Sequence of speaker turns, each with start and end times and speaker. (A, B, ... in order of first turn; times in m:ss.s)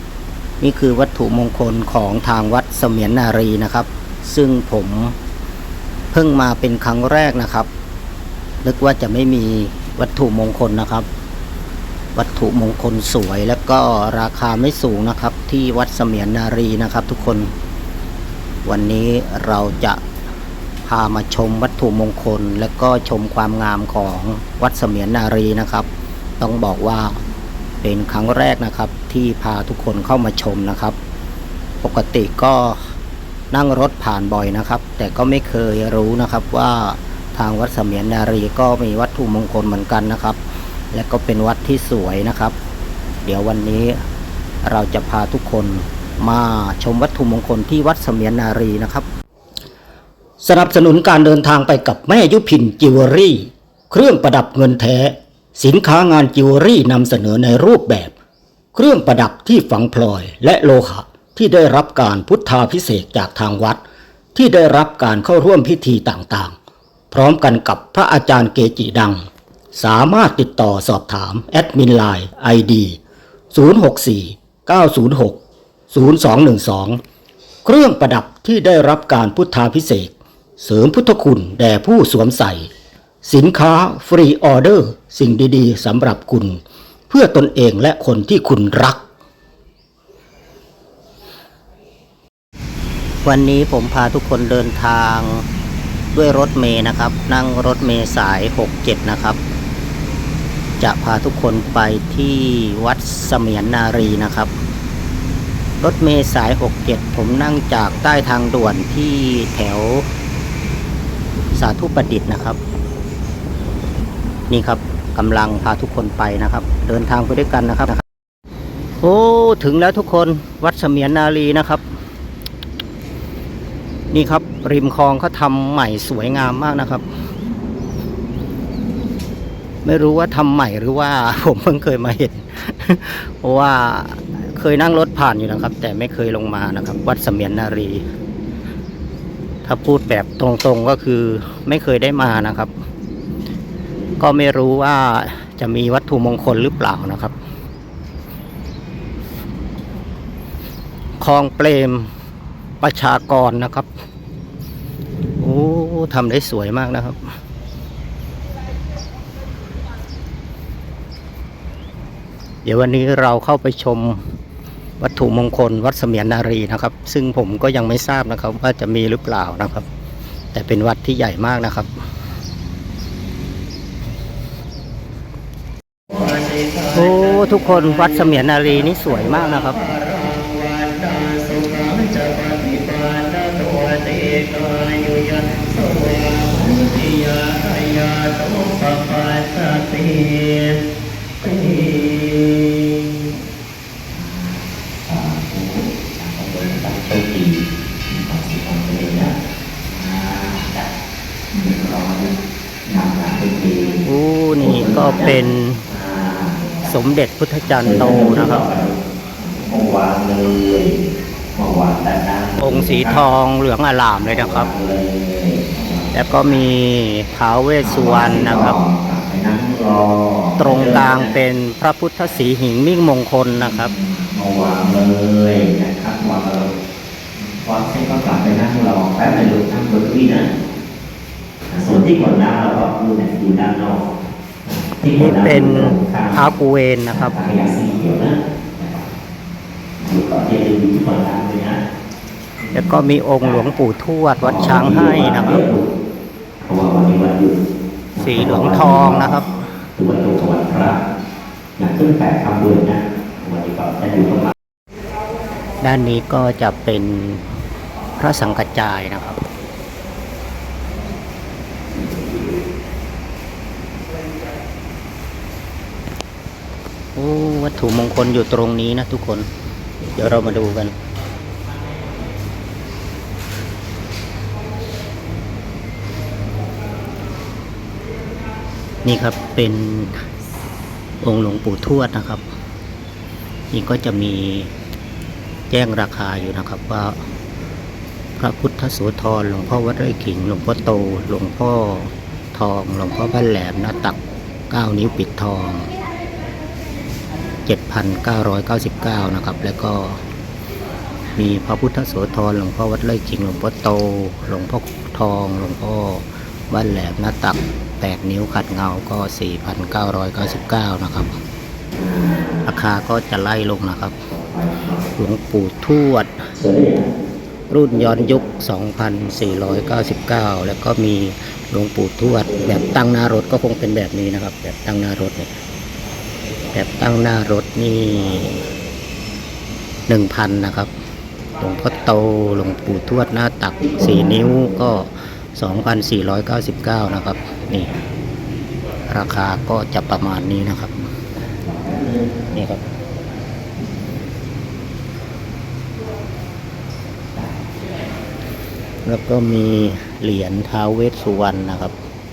0:00.6-0:05.2 A
0:06.1-0:07.7 A
0:08.6-0:11.0 A
0:12.1-0:17.5 A
0:18.6-0:20.0 A
0:20.8-0:25.9 A
0:26.4-0:27.2 A
0:27.8-0:31.0 A
0:31.8-0:32.9 A
0:33.5-0:42.5 A
0:43.2-0:44.0 A
0:44.6-0:49.1 A
0:50.4-0:58.1 A
0:58.7-1:03.8 A
1:04.3-1:06.5 A
1:07.1-1:13.0 A
1:13.5-1:15.4 A
1:15.9-1:17.0 A
1:17.6-1:22.7 A
1:23.2-1:29.0 A
1:33.2-1:35.4 A
1:36.1-1:39.4 A
1:40.8-1:44.5 A
1:45.8-1:50.0 A
1:51.6-1:52.6 A
1:54.5-1:58.0 A
1:59.0-2:01.8 A
2:04.1-2:07.0 A
2:09.8-2:18.0 A
2:19.6-2:22.7 A
2:24.2-2:27.3 A
2:31.2-2:32.1 A
2:32.8-2:33.9 A
2:35.4-2:37.3 A
2:42.6-2:44.2 A
2:45.0-2:49.8 A
2:50.5-2:51.9 A
2:56.8-3:10.8 A
3:11.4-3:13.2 A
3:14.1-3:19.3 B
3:19.8-3:20.9 B
3:21.5-3:22.3 B
3:22.8-3:24.0 B
3:24.0-3:25.8 A
3:24.6-3:26.9 B
3:26.8-3:28.7 A
3:27.7-3:31.0 B
3:31.5-3:33.2 B
3:32.6-3:34.7 A
3:34.1-3:36.6 B
3:36.1-3:38.8 A
3:37.8-3:41.3 B
3:40.6-3:43.9 A
3:43.6-3:46.7 B
3:47.3-3:50.5 B
3:51.7-3:54.1 B
3:54.6-3:56.5 B
3:55.1-3:57.4 A
3:57.1-3:59.1 B
4:00.0-4:01.8 B
4:02.6-4:03.7 B
4:02.7-4:05.7 A
4:04.4-4:05.9 B
4:06.6-4:07.6 B
4:08.1-4:09.4 B
4:08.2-4:09.6 A
4:10.0-4:11.0 B
4:11.8-4:14.5 B
4:15.8-4:17.6 A
4:18.2-4:19.4 A
4:27.2-4:29.5 A
4:30.0-4:30.9 A
4:39.0-4:40.2 A
4:41.2-4:42.4 A
4:43.7-4:44.7 A
4:45.7-4:47.2 A
4:48.4-4:54.2 A
4:54.7-4:55.9 A
4:57.6-5:00.2 A
5:01.4-5:11.4 A
5:11.9-5:12.7 B
5:12.6-5:14.3 A
5:14.3-5:15.0 B
5:15.2-5:16.5 A
5:16.5-5:17.1 B
5:17.7-5:25.6 A
5:17.9-5:18.4 B
5:22.2-5:23.4 B
5:26.7-5:28.5 A
5:30.1-5:30.9 A
5:31.6-5:38.0 A
5:33.8-5:34.9 B
5:39.1-5:41.1 A
5:41.5-5:42.6 B
5:42.5-5:42.8 A
5:43.8-5:44.1 B
5:49.0-5:51.9 A